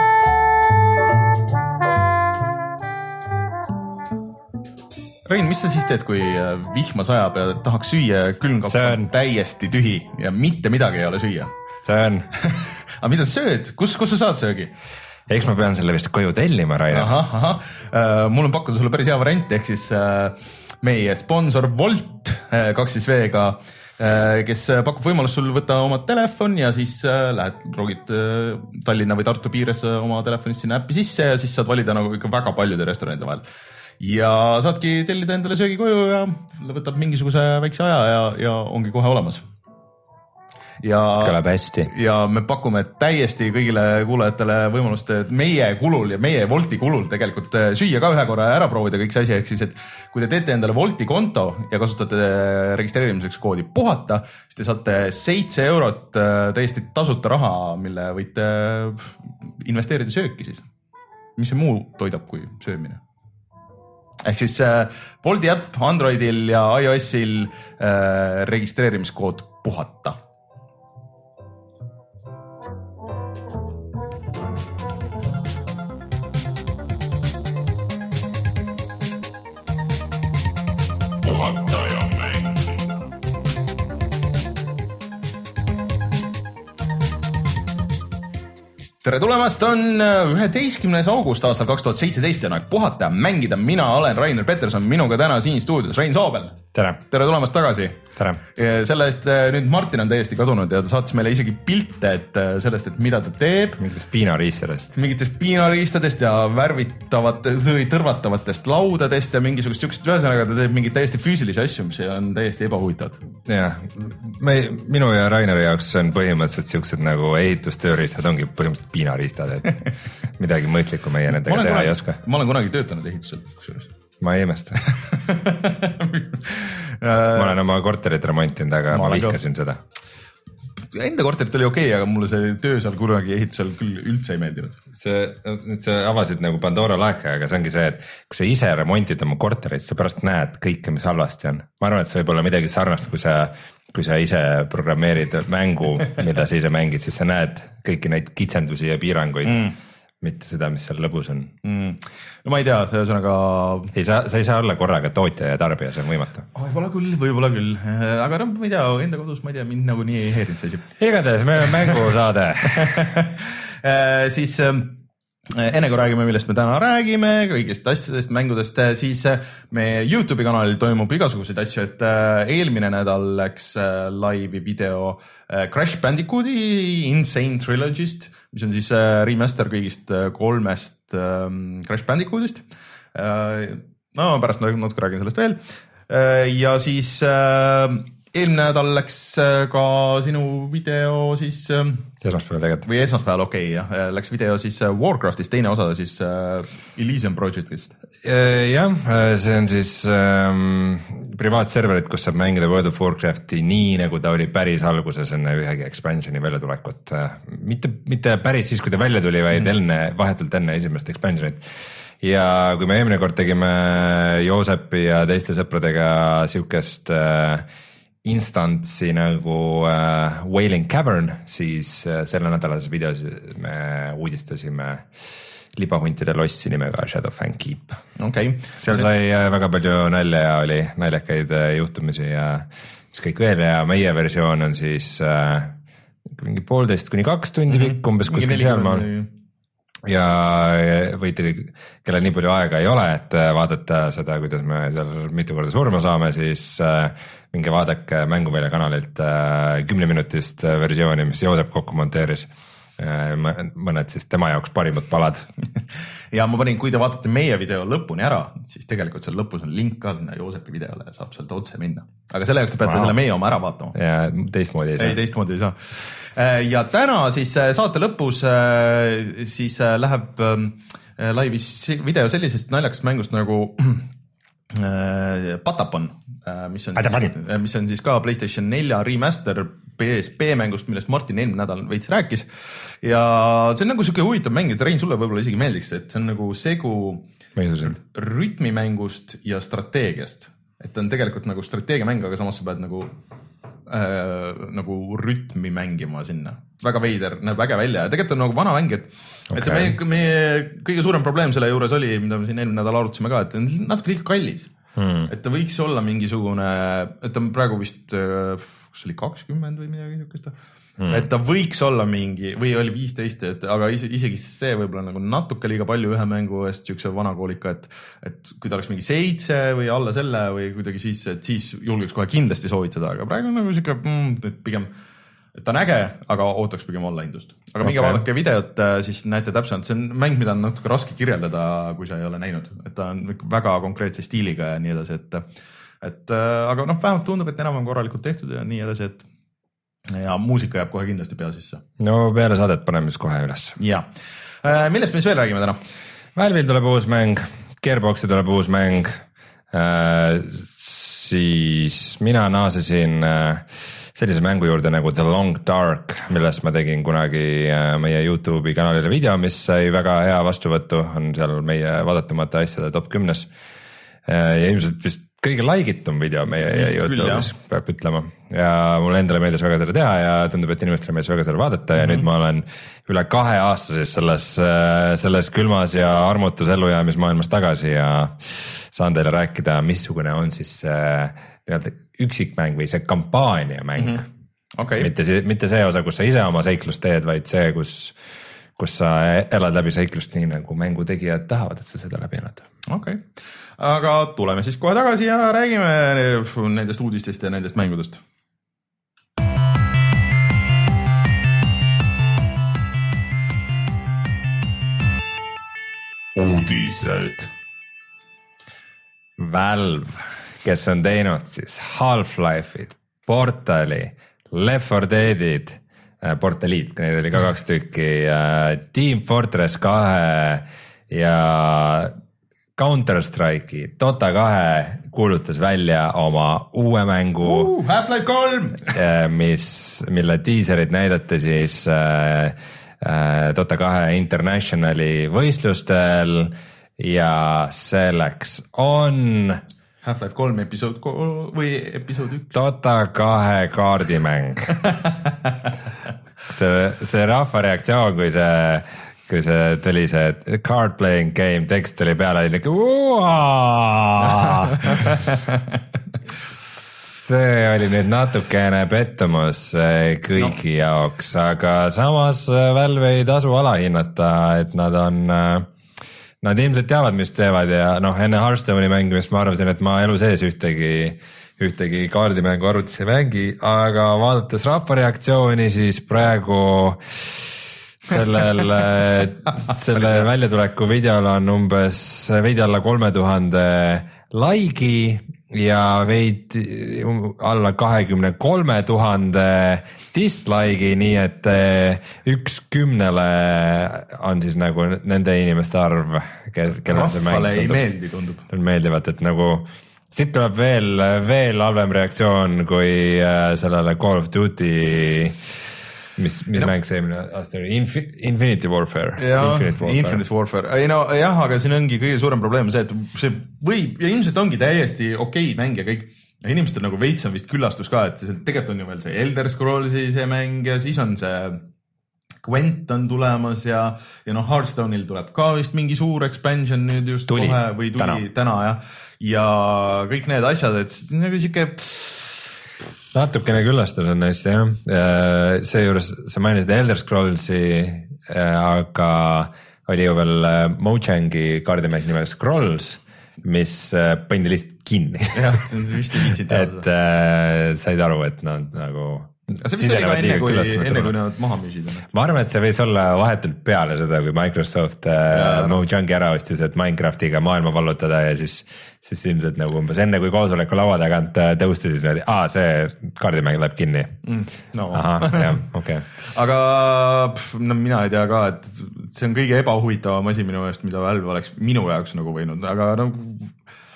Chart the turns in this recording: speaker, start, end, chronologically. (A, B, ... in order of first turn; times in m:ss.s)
0:05.2-0:11.5 A
0:08.7-0:09.1 B
0:11.8-0:12.3 B
0:12.3-0:14.7 A
0:15.3-0:17.2 B
0:16.9-0:33.4 A
0:34.0-0:39.4 A
0:40.8-1:00.7 A
0:41.2-0:41.9 B
1:01.4-1:03.0 A
1:04.2-1:10.2 A
1:21.2-1:22.8 C
1:29.0-1:43.8 A
1:36.7-1:37.0 B
1:43.8-1:44.9 B
1:44.9-1:53.2 A
1:53.5-1:59.8 B
2:00.4-2:02.2 B
2:01.3-2:03.9 A
2:04.2-2:04.8 B
2:04.8-2:07.6 A
2:07.3-2:09.8 B
2:08.9-2:09.4 A
2:10.9-2:14.8 A
2:14.9-2:29.7 B
2:29.4-2:29.7 A
2:30.2-2:31.5 B
2:31.6-2:33.9 A
2:33.9-2:36.5 B
2:36.5-2:40.9 A
2:41.0-2:43.1 B
2:41.7-2:42.0 A
2:42.6-3:12.1 A
3:12.2-3:12.8 B
3:12.8-3:17.9 A
3:18.2-3:31.6 B
3:32.2-3:37.6 B
3:38.2-3:45.1 B
3:45.7-3:48.0 B
3:48.2-3:49.1 A
3:48.8-3:55.8 B
3:56.3-3:59.0 B
3:57.7-3:59.3 A
4:00.0-4:15.5 B
4:16.3-4:23.9 A
4:22.8-4:23.2 B
4:23.9-4:25.2 B
4:25.0-4:34.1 A
4:34.7-4:47.3 A
4:37.0-4:37.3 B
4:47.6-4:48.0 B
4:47.8-4:53.2 A
4:53.8-5:04.7 A
4:59.5-5:00.0 B
5:05.0-5:05.3 B
5:05.3-5:10.6 A
5:11.0-5:11.3 B
5:11.1-5:24.9 A
5:25.5-5:35.5 A
5:27.8-5:28.2 B
5:36.0-5:39.2 A
5:40.1-5:41.8 A
5:42.0-5:43.8 B
5:43.8-5:44.1 A
5:44.6-5:45.8 A
5:46.4-6:03.5 B
6:04.2-6:24.3 B
6:06.6-6:07.5 A
6:24.0-6:24.2 A
6:24.7-6:25.1 A
6:25.0-6:28.2 B
6:28.8-6:32.7 B
6:32.9-6:38.2 A
6:46.4-6:47.5 C
6:49.4-7:02.1 B
7:02.8-7:07.7 B
7:07.4-7:09.0 A
7:08.9-7:19.6 B
7:20.0-7:22.6 A
7:22.5-7:24.8 B
7:24.8-7:25.5 A
7:26.4-7:35.3 B
7:34.8-7:35.6 A
7:36.6-7:45.7 B
7:46.4-8:17.8 B
8:16.9-8:18.5 A
8:18.5-8:25.6 B
8:26.2-8:30.2 B
8:29.2-8:41.6 A
8:42.4-8:52.5 A
8:47.3-8:48.2 B
8:53.1-9:05.6 B
9:05.3-9:06.8 A
9:06.4-9:11.1 B
9:09.6-9:12.1 A
9:12.1-9:24.2 B
9:15.3-9:15.8 A
9:24.2-9:25.6 A
9:24.9-9:26.1 B
9:26.2-9:33.6 A